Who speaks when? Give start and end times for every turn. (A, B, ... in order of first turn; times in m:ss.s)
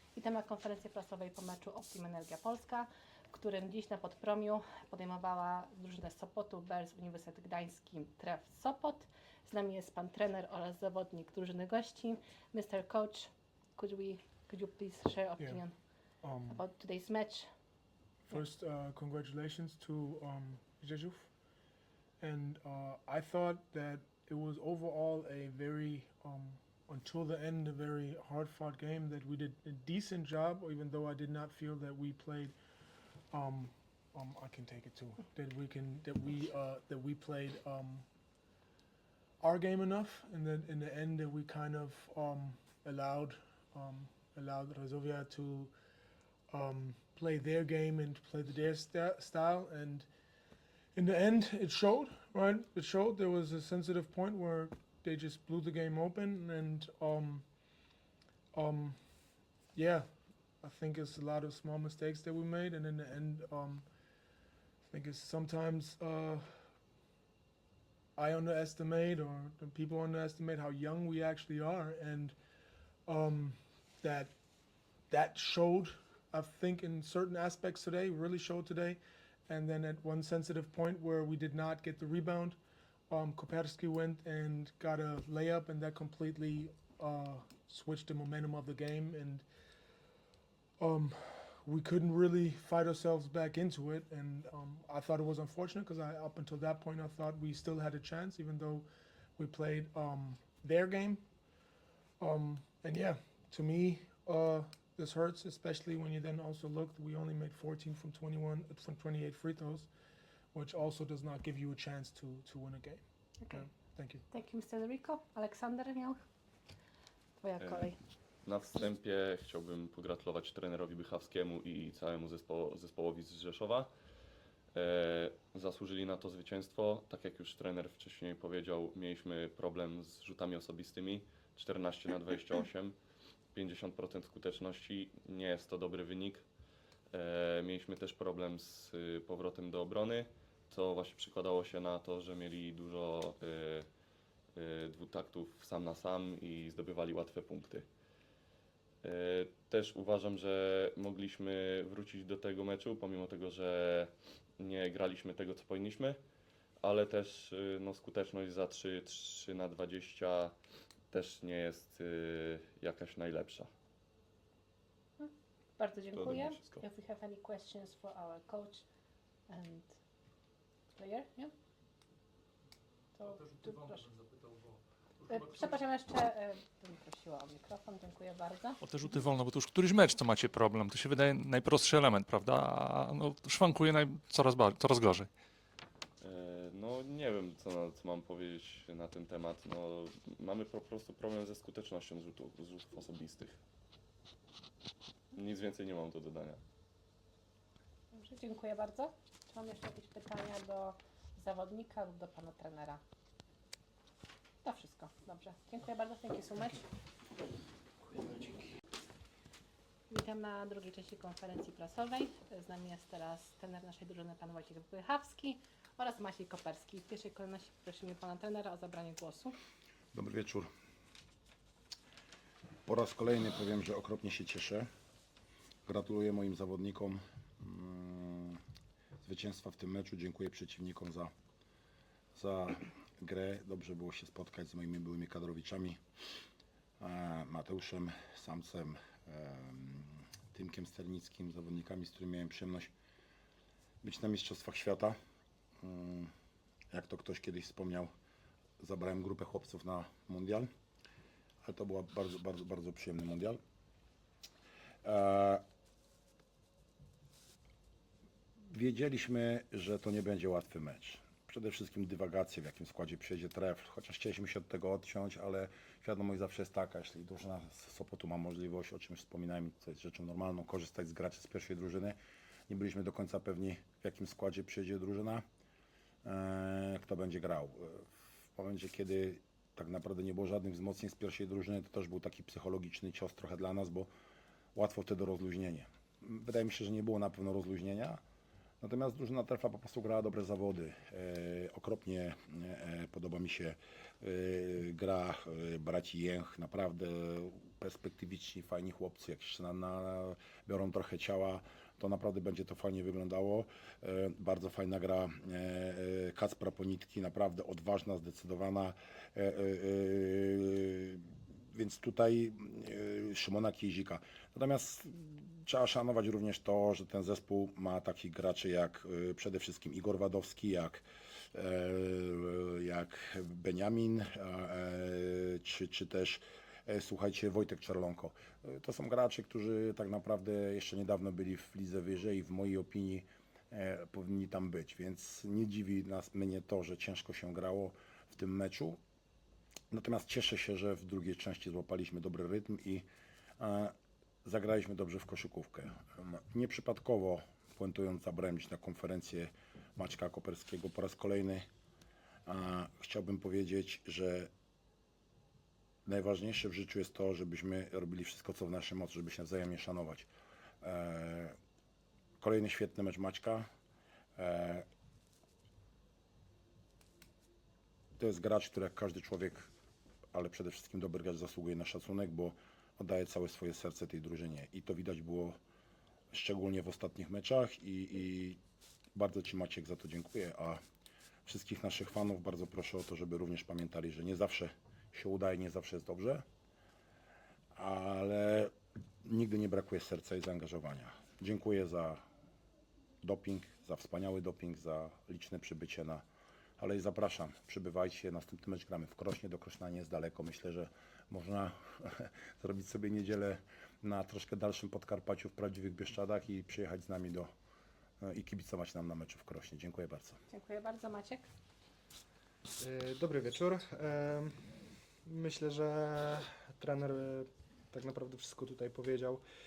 0:00.2-0:15.8 A
0:16.2-0:16.6 B
0:16.5-0:17.5 A
0:18.3-0:21.3 B
0:22.2-0:32.6 B
0:33.3-0:38.1 B
0:39.4-0:45.7 B
0:46.5-0:50.1 B
0:51.0-0:57.5 B
0:58.5-1:03.9 B
1:04.9-1:06.7 B
1:08.2-1:12.4 B
1:13.1-1:14.3 B
1:15.1-1:22.6 B
1:23.1-1:29.4 B
1:30.8-1:41.2 B
1:42.2-1:49.9 B
1:50.5-1:54.2 B
1:53.4-1:53.7 A
1:54.3-1:56.2 A
1:57.4-1:58.0 A
1:57.6-1:57.9 C
1:58.4-2:03.9 C
2:04.7-2:13.0 C
2:13.5-2:16.5 C
2:17.1-2:23.9 C
2:24.6-2:27.9 C
2:29.0-2:36.2 C
2:36.8-2:40.5 C
2:41.1-2:43.7 C
2:45.2-2:48.8 A
2:46.1-2:46.8 C
2:49.5-2:50.0 A
2:50.9-2:51.5 A
2:53.2-2:54.1 A
2:55.3-2:58.8 A
2:58.8-3:05.3 D
3:06.2-3:13.6 C
3:15.4-3:16.6 C
3:18.1-3:23.0 A
3:24.6-3:26.8 A
3:28.2-3:28.5 A
3:30.1-3:39.6 A
3:40.1-3:40.7 E
3:42.9-3:44.9 E
3:45.9-3:48.6 E
3:49.2-3:51.3 E
3:52.4-3:56.0 E
3:57.0-4:02.9 E
4:04.0-4:05.2 E
4:05.8-4:06.3 E
4:06.9-4:08.1 E
4:08.8-4:10.7 E
4:11.6-4:13.6 E
4:15.0-4:15.6 E
4:18.7-4:32.2 E
4:32.7-4:35.4 E
4:36.2-4:44.1 E
4:44.8-4:48.2 E
4:48.8-5:39.0 E
5:39.9-5:43.1 E
5:43.6-5:43.9 E
5:44.4-5:51.7 E
5:52.5-5:54.5 E
5:56.1-6:00.3 E
6:00.8-6:01.6 E
6:02.4-6:03.7 E
6:04.4-6:04.8 E
6:08.2-6:09.7 E
6:10.3-6:15.6 E
6:16.3-6:18.6 E
6:19.2-6:20.8 E
6:21.5-6:26.4 E
6:27.8-6:28.7 E
6:29.2-6:32.2 E
6:33.2-6:36.2 E
6:36.8-6:47.5 E
6:48.2-6:50.4 E
6:50.5-6:51.5 A
6:52.8-6:54.5 F
6:55.3-6:59.4 F